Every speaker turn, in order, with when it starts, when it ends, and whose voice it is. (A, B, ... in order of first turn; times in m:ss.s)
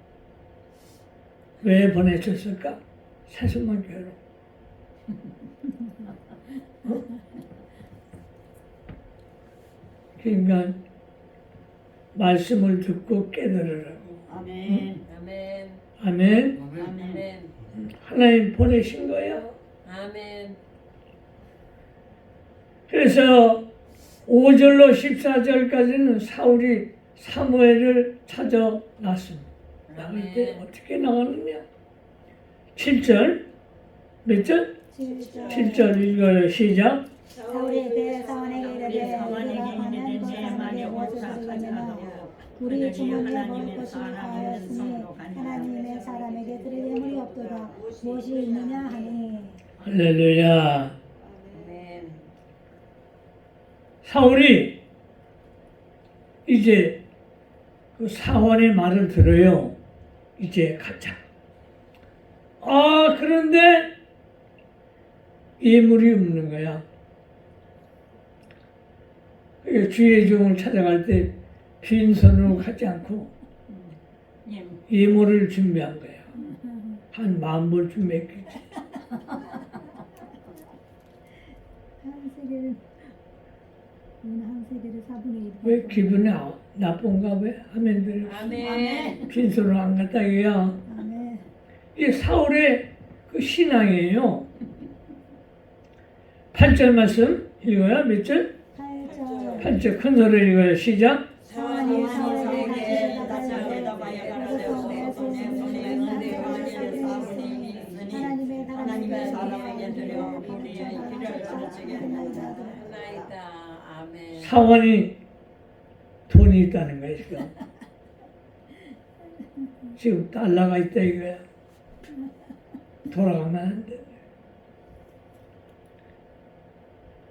0:01.6-0:04.2 A
0:10.2-0:10.8 A
0:12.1-0:14.9 A
0:15.0-0:15.8 B
0:16.0-0:16.6 A
0:16.7-0:17.5 B
0:17.7-0:19.5 A
0:19.8-0:20.6 B
0:22.9-0:23.6 A
0:24.3-0:31.6 A
0:29.9-0:30.6 B
0:32.7-0:33.4 A
0:34.2-0:34.7 A
0:34.9-0:36.0 C
0:35.5-0:37.0 A
0:37.5-0:49.6 C
0:49.8-0:50.9 A
0:51.5-0:52.2 B
0:54.0-0:54.8 A
0:56.4-0:57.0 A
0:58.0-0:59.8 A
1:00.4-1:01.2 A
1:02.6-1:03.9 A
1:05.6-1:06.8 A
1:09.6-1:13.3 A
1:14.9-1:16.3 A
1:16.4-1:17.0 C
1:17.1-1:18.7 A
1:22.0-1:22.9 C
1:24.2-1:26.3 C
1:25.6-1:28.6 A
1:28.2-1:29.3 B
1:29.2-1:30.8 A
1:30.8-1:31.5 C
1:32.0-1:34.5 A
1:36.5-1:38.5 A
1:38.7-1:39.8 C
1:39.6-1:41.2 A
1:41.5-1:52.8 C
1:41.5-1:46.2 B
1:52.7-1:54.6 B
1:54.4-1:55.2 A
1:56.3-1:57.5 A
2:00.0-2:01.4 A
2:03.1-2:04.1 A